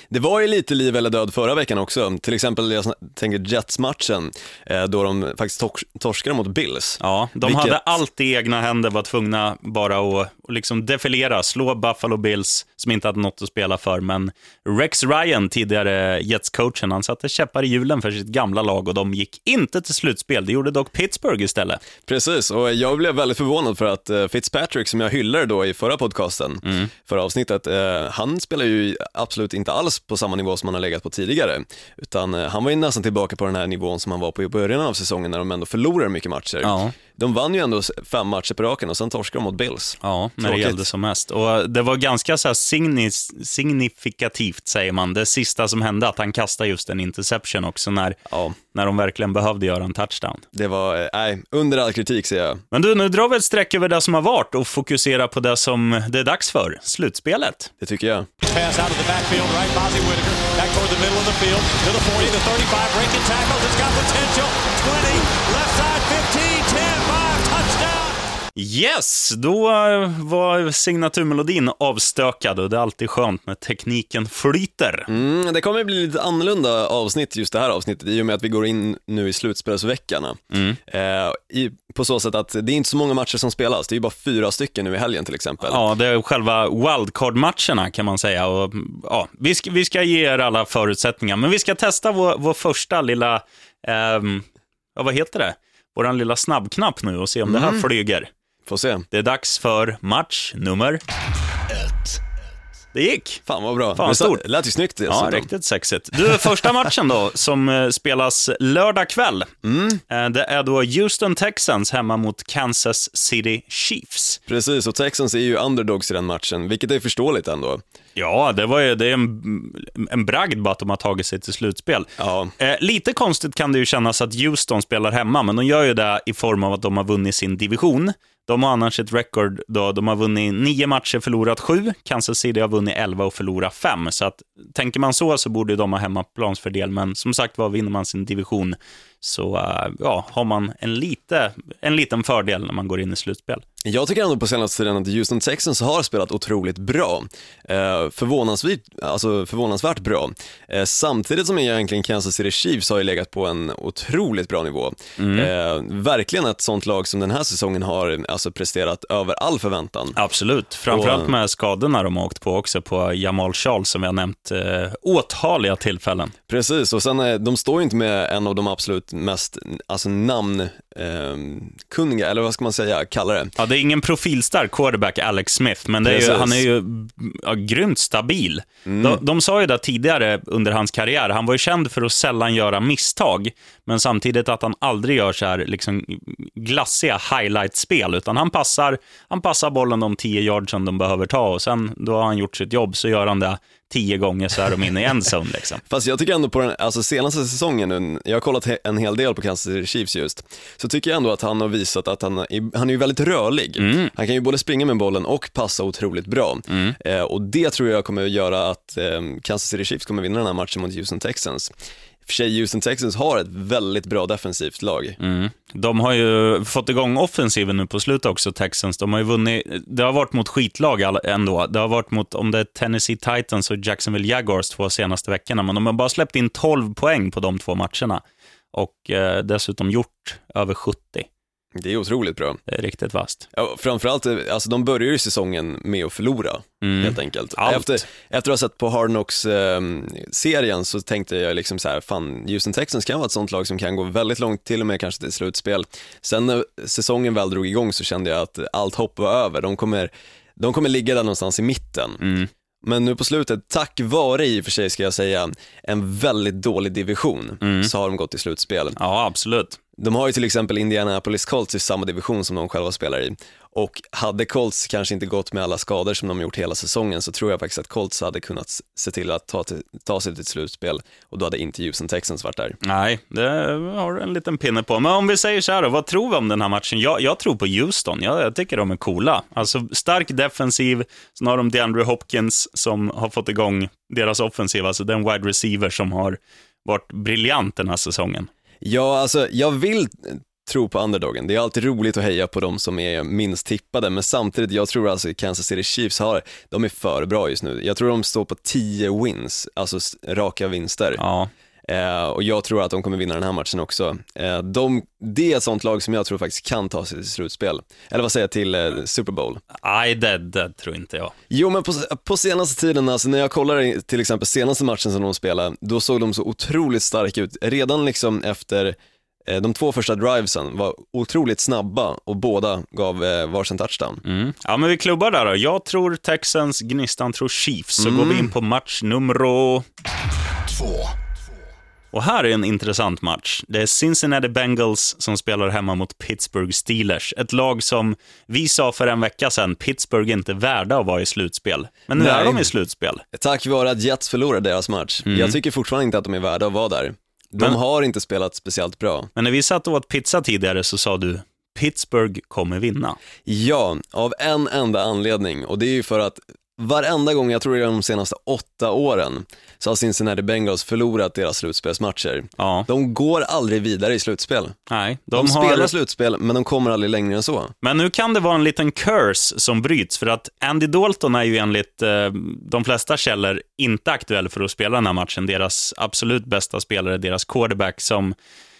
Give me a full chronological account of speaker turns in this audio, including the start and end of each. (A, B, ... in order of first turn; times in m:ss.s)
0:00.1-0:07.8 A
0:07.0-0:21.8 B
0:22.0-0:40.9 A
0:26.6-0:26.9 B
0:36.6-0:37.0 B
0:40.0-0:50.4 B
0:48.3-0:48.6 A
0:50.5-0:52.6 A
0:52.7-0:57.7 B
0:57.8-0:58.3 A
0:58.4-1:08.2 C
1:08.6-1:15.1 B
1:15.1-1:25.8 A
1:20.5-1:20.8 B
1:25.6-1:38.3 B
1:37.4-1:37.8 A
1:38.7-1:39.0 A
1:39.1-1:41.0 B
1:42.9-1:43.4 B
1:43.5-1:45.5 A
1:44.0-1:44.4 B
1:45.1-1:49.5 B
1:49.6-1:50.0 A
1:50.1-1:54.4 B
1:54.5-1:57.8 A
1:58.2-2:23.6 B
2:02.2-2:02.5 A
2:23.8-2:40.2 A
2:35.2-2:35.5 B
2:40.1-2:46.3 B
2:40.9-2:41.3 A
2:46.5-2:53.5 A
2:53.6-3:15.8 B
2:56.0-2:56.6 A
2:58.8-2:59.2 A
3:15.8-3:31.7 A
3:23.8-3:24.1 B
3:26.7-3:27.0 B
3:32.2-3:35.2 A
3:35.2-3:48.2 B
3:48.7-3:51.3 B
3:51.8-3:52.6 A
3:52.7-3:53.5 B
3:53.5-4:12.2 A
3:56.8-3:58.0 B
4:12.2-4:12.5 B
4:12.8-4:19.0 A
4:17.6-4:17.9 B
4:19.0-4:19.8 B
4:20.0-4:32.8 A
4:32.8-4:48.5 B
4:48.8-5:01.2 A
5:01.2-5:01.5 B
5:01.8-5:09.6 A
5:09.8-5:11.4 B
5:11.5-5:24.2 A
5:24.2-5:29.8 B
5:28.0-5:28.5 A
5:32.1-5:43.2 B
5:42.2-5:42.7 A
5:43.3-5:49.3 A
5:45.2-5:45.6 B
5:49.4-5:53.2 B
5:53.4-6:04.8 A
6:02.6-6:02.9 B
6:04.9-6:05.9 B
6:05.4-6:07.7 A
6:07.8-6:18.3 B